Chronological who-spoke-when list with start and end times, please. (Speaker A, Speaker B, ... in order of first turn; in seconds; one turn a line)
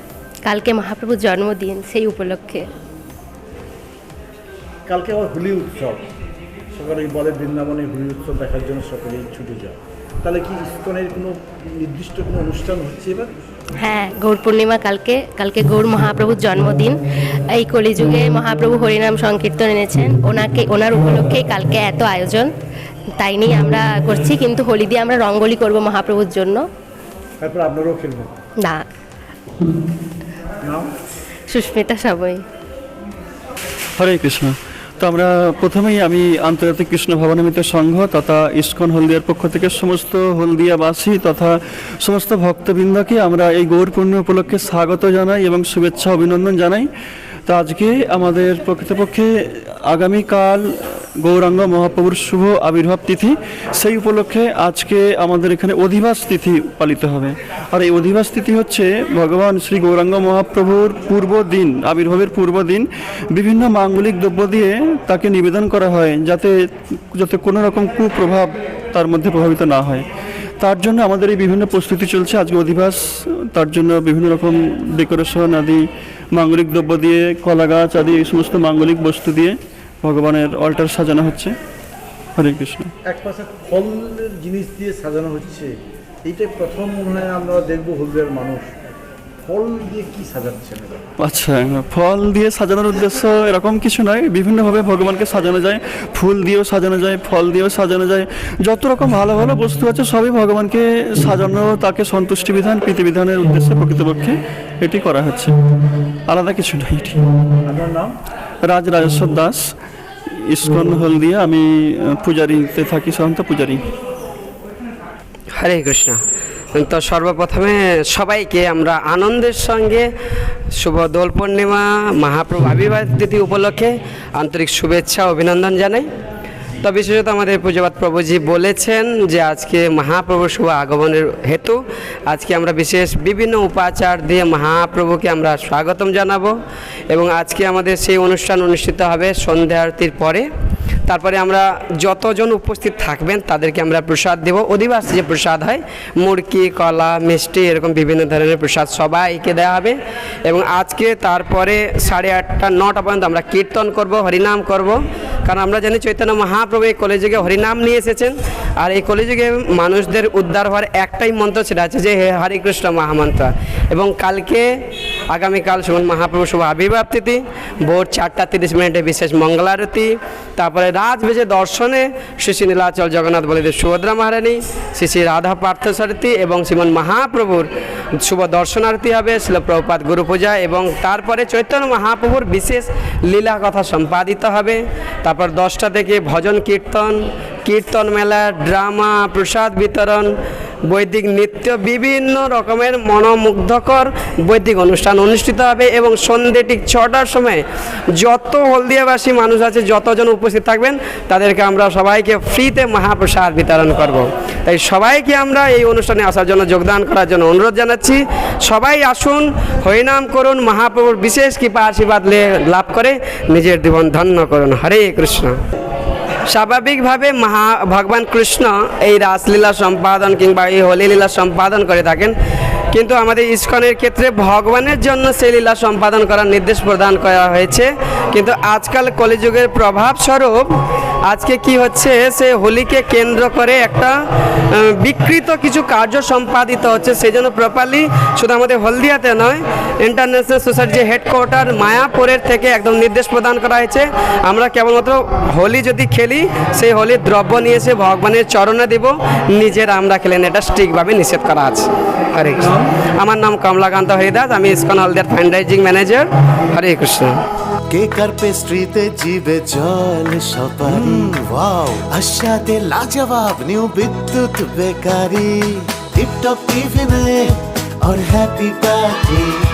Speaker A: 0.4-2.7
Speaker B: 4.9-6.0
Speaker B: 6.7-13.3
Speaker A: 13.8-22.5
Speaker A: 23.2-26.6
Speaker B: 27.4-28.3
Speaker A: 28.6-28.9
Speaker B: 30.6-30.9
Speaker A: 31.5-32.4
Speaker C: 34.0-46.9
Speaker C: 47.5-66.5
Speaker C: 67.1-70.0
Speaker C: 70.6-81.5
Speaker C: 82.4-82.9
Speaker B: 83.0-85.7
Speaker B: 86.2-88.8
Speaker B: 89.5-91.0
Speaker C: 91.2-105.5
Speaker C: 106.3-107.2
Speaker B: 107.7-108.2
Speaker C: 108.7-109.6
Speaker C: 110.3-113.8
Speaker D: 115.5-116.2
Speaker D: 116.8-120.1
Speaker D: 120.8-126.1
Speaker D: 126.8-136.5
Speaker D: 137.1-140.4
Speaker D: 141.1-164.6
Speaker D: 165.3-177.7
Speaker D: 178.2-190.3
Speaker D: 190.9-197.6
Speaker D: 198.2-215.6
Speaker D: 216.5-222.3
Speaker D: 222.9-230.7
Speaker D: 231.3-234.1
Speaker D: 234.7-257.4
Speaker E: 257.9-267.5
Speaker E: 268.0-269.5